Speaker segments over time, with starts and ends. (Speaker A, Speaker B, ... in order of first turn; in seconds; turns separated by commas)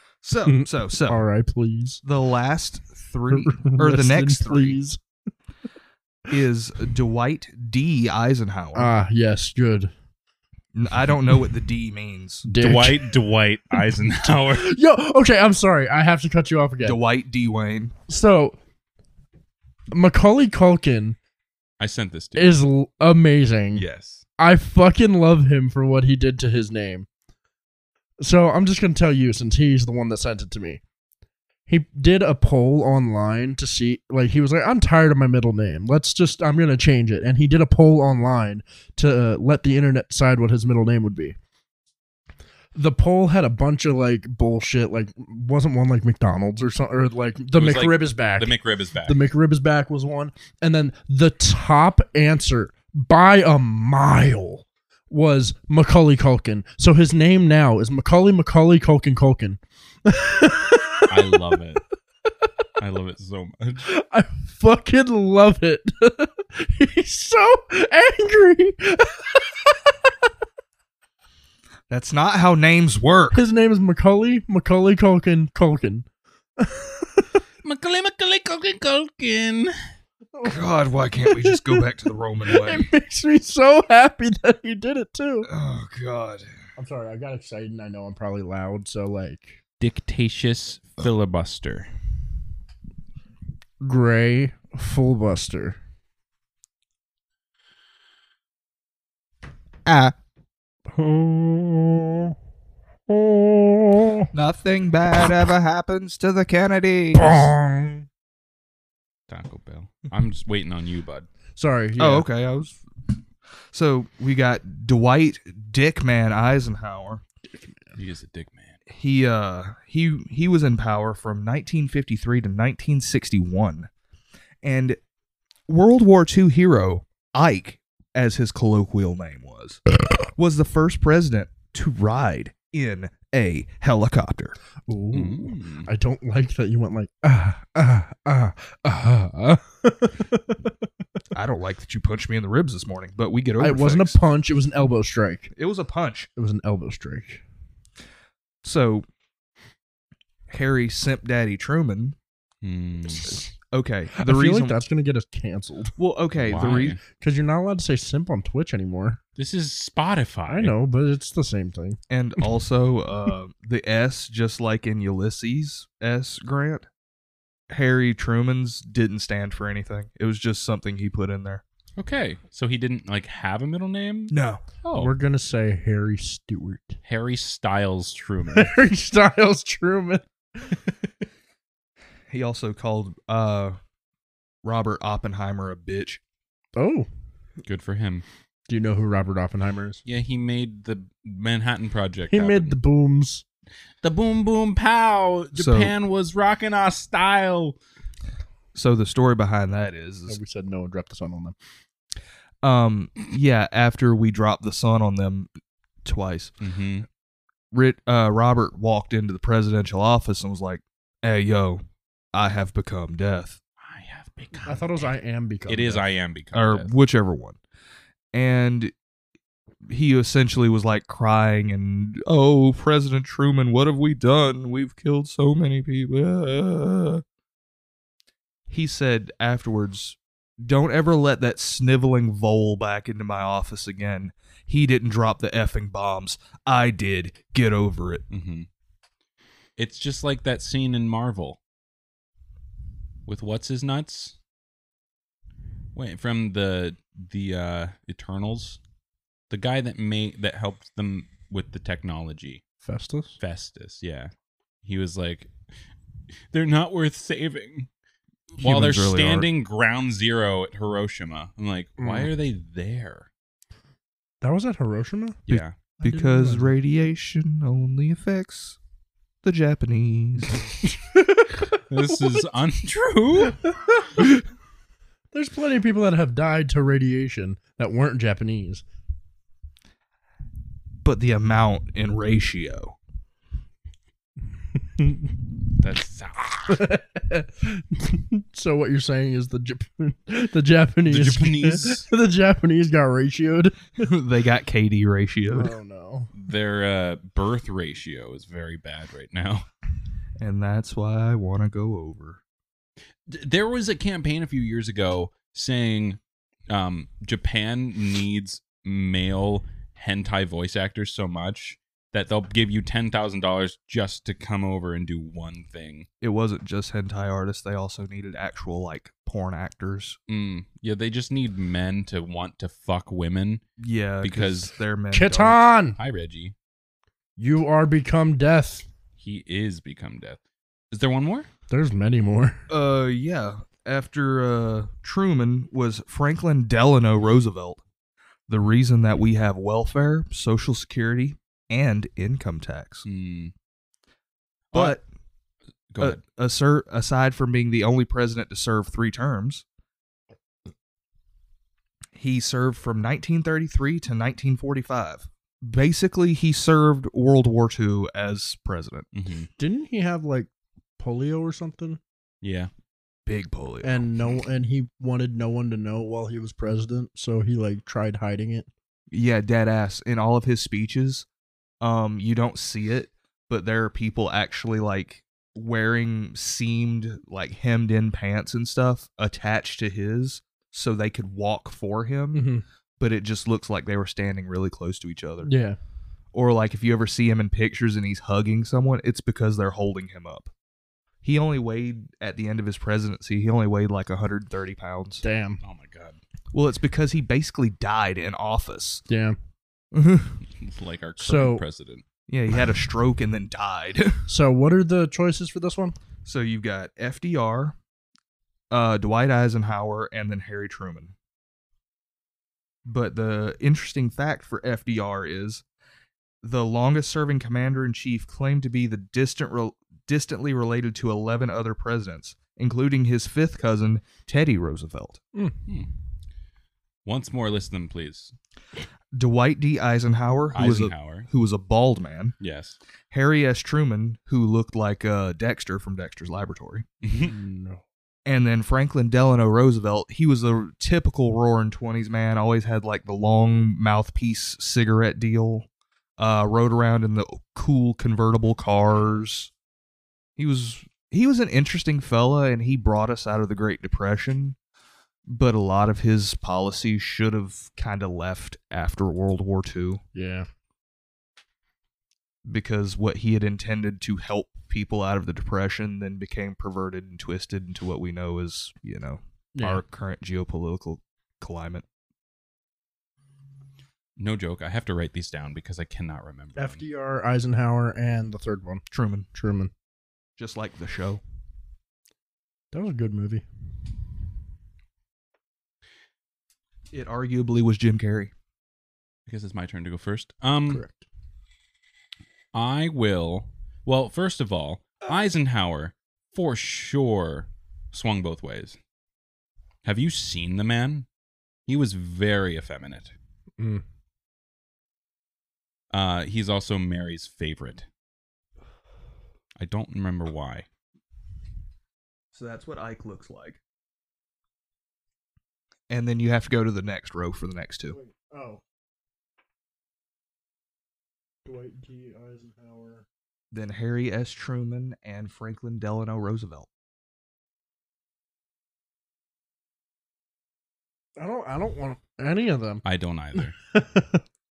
Speaker A: 0.2-1.2, Speaker B: 0.4-2.0, Speaker A: 2.0-4.8, Speaker B: 3.3-5.0, Speaker A: 6.3-8.9, Speaker B: 8.7-9.9, Speaker A: 10.7-12.4, Speaker B: 12.4-13.2, Speaker C: 12.5-14.7, Speaker B: 14.3-17.0, Speaker A: 16.8-17.9, Speaker B: 18.1-18.6, Speaker B: 19.9-21.2, Speaker C: 21.8-22.5, Speaker B: 22.4-23.8, Speaker C: 23.7-24.2, Speaker B: 24.4-27.1, Speaker B: 28.2-30.8, Speaker B: 31.7-41.4, Speaker B: 42.7-48.5, Speaker C: 47.5-49.2, Speaker B: 49.0-61.3, Speaker C: 61.1-61.8, Speaker C: 62.8-63.9, Speaker B: 63.9-70.1, Speaker A: 71.9-73.4, Speaker B: 73.3-76.1, Speaker B: 76.6-77.4, Speaker C: 77.6-79.7, Speaker B: 80.3-80.6, Speaker A: 80.4-82.9, Speaker B: 81.2-81.8, Speaker B: 82.5-85.5, Speaker A: 85.5-86.5, Speaker B: 86.8-89.6, Speaker C: 89.8-91.9, Speaker B: 93.8-95.8, Speaker A: 99.8-100.2, Speaker B: 100.9-102.3, Speaker B: 103.1-104.3, Speaker A: 104.3-107.5, Speaker B: 107.1-108.0, Speaker C: 109.3-111.3, Speaker B: 111.5-112.3, Speaker A: 112.0-112.8, Speaker A: 113.7-117.2, Speaker B: 117.5-117.9, Speaker C: 118.0-118.8, Speaker A: 118.9-123.9, Speaker A: 124.6-125.0, Speaker A: 125.7-129.8, Speaker A: 130.3-134.6, Speaker B: 134.9-140.7, Speaker C: 135.1-135.9, Speaker A: 141.3-144.2, Speaker B: 143.6-145.5, Speaker A: 145.5-146.3, Speaker B: 146.4-147.4, Speaker A: 148.6-149.0, Speaker A: 150.5-152.2, Speaker C: 152.6-153.3, Speaker A: 153.7-154.8, Speaker B: 154.2-155.9, Speaker A: 156.0-157.0, Speaker C: 156.4-157.0, Speaker B: 157.1-159.2, Speaker C: 159.4-160.7, Speaker B: 160.5-162.0, Speaker A: 162.1-166.9, Speaker A: 167.7-171.6, Speaker C: 172.0-175.1, Speaker A: 174.3-174.6, Speaker B: 174.9-177.0, Speaker C: 177.0-178.7, Speaker B: 178.5-180.8, Speaker A: 182.3-183.8, Speaker A: 184.6-186.2, Speaker B: 186.8-187.1, Speaker C: 187.6-188.2, Speaker B: 188.7-190.0, Speaker C: 190.0-192.8, Speaker B: 192.3-193.4, Speaker C: 194.0-197.8, Speaker A: 195.5-195.9, Speaker A: 198.7-200.4, Speaker B: 200.3-201.5, Speaker A: 202.6-205.5, Speaker A: 206.0-206.5, Speaker C: 206.6-207.1, Speaker A: 207.7-211.8, Speaker A: 212.3-213.6, Speaker C: 213.8-215.1, Speaker B: 214.7-216.0, Speaker C: 215.7-216.9, Speaker A: 216.5-217.6, Speaker A: 218.3-218.9, Speaker A: 219.9-227.2, Speaker A: 228.7-238.2, Speaker C: 238.3-238.7, Speaker C: 239.8-241.6, Speaker C: 243.2-244.3, Speaker C: 245.9-248.8, Speaker C: 249.5-252.6, Speaker B: 252.8-253.4, Speaker C: 253.4-254.3, Speaker C: 254.8-255.5, Speaker C: 256.5-257.9, Speaker C: 258.5-263.3, Speaker A: 258.6-259.5, Speaker B: 262.0-262.3, Speaker B: 264.4-265.4, Speaker C: 265.5-265.7, Speaker A: 265.5-268.8, Speaker B: 266.0-266.8, Speaker A: 269.4-270.6, Speaker B: 270.8-272.3, Speaker C: 271.9-273.6, Speaker B: 273.4-274.3, Speaker B: 275.3-278.8, Speaker A: 281.0-283.0, Speaker B: 285.0-285.3, Speaker C: 285.8-286.8, Speaker B: 286.7-293.8, Speaker C: 291.1-292.1, Speaker A: 294.0-295.7, Speaker B: 295.5-296.3, Speaker C: 296.3-299.6, Speaker A: 300.4-302.4, Speaker C: 303.3-306.2, Speaker C: 306.7-316.1, Speaker A: 316.2-320.2, Speaker C: 320.3-323.6, Speaker A: 323.8-325.6, Speaker C: 324.2-324.7, Speaker B: 325.1-326.0, Speaker C: 325.9-326.5, Speaker B: 327.4-328.9, Speaker C: 329.2-330.4, Speaker C: 330.9-331.5, Speaker B: 331.7-332.6, Speaker A: 332.7-337.8, Speaker A: 338.5-343.0, Speaker C: 343.0-343.5, Speaker C: 344.7-345.0, Speaker A: 344.7-345.0, Speaker C: 345.9-346.2, Speaker A: 346.0-349.6, Speaker A: 352.1-359.1, Speaker C: 359.1-359.5, Speaker B: 359.6-362.0, Speaker C: 362.4-362.7, Speaker A: 363.2-364.0, Speaker B: 363.8-368.7, Speaker A: 369.1-371.2, Speaker A: 371.8-385.5, Speaker B: 382.3-382.6, Speaker B: 385.4-385.8, Speaker A: 386.3-390.5, Speaker A: 391.2-395.2, Speaker B: 395.2-395.6, Speaker C: 395.6-396.2, Speaker A: 396.5-399.0, Speaker B: 399.1-399.3, Speaker A: 399.9-400.4, Speaker C: 400.5-402.0, Speaker B: 401.2-401.6, Speaker A: 402.3-404.2, Speaker B: 404.3-405.9, Speaker A: 406.2-407.8, Speaker A: 408.7-411.1, Speaker A: 412.9-415.6, Speaker A: 416.4-425.2, Speaker C: 427.0-428.3, Speaker A: 429.1-432.4, Speaker C: 430.5-431.3, Speaker C: 432.4-432.8, Speaker A: 433.1-436.9, Speaker C: 437.0-437.3, Speaker B: 437.2-437.8, Speaker A: 438.2-445.7, Speaker A: 446.2-449.5, Speaker A: 450.4-454.6, Speaker A: 455.3-460.0, Speaker B: 460.1-460.5, Speaker A: 462.4-471.8, Speaker B: 469.5-469.8, Speaker C: 474.2-476.8, Speaker B: 476.6-478.8, Speaker A: 478.9-479.3, Speaker B: 479.3-479.7, Speaker A: 480.4-481.2, Speaker B: 482.7-483.4, Speaker A: 486.9-488.3, Speaker C: 489.3-490.8, Speaker B: 490.7-491.0, Speaker C: 492.5-498.8, Speaker C: 499.8-501.1, Speaker C: 501.7-503.1, Speaker C: 505.9-507.9, Speaker C: 509.6-510.6, Speaker A: 512.3-513.6, Speaker A: 515.9-518.0, Speaker B: 517.9-518.6, Speaker B: 521.4-523.0, Speaker A: 523.5-526.7, Speaker B: 531.2-532.8, Speaker C: 532.8-533.5, Speaker B: 533.7-534.2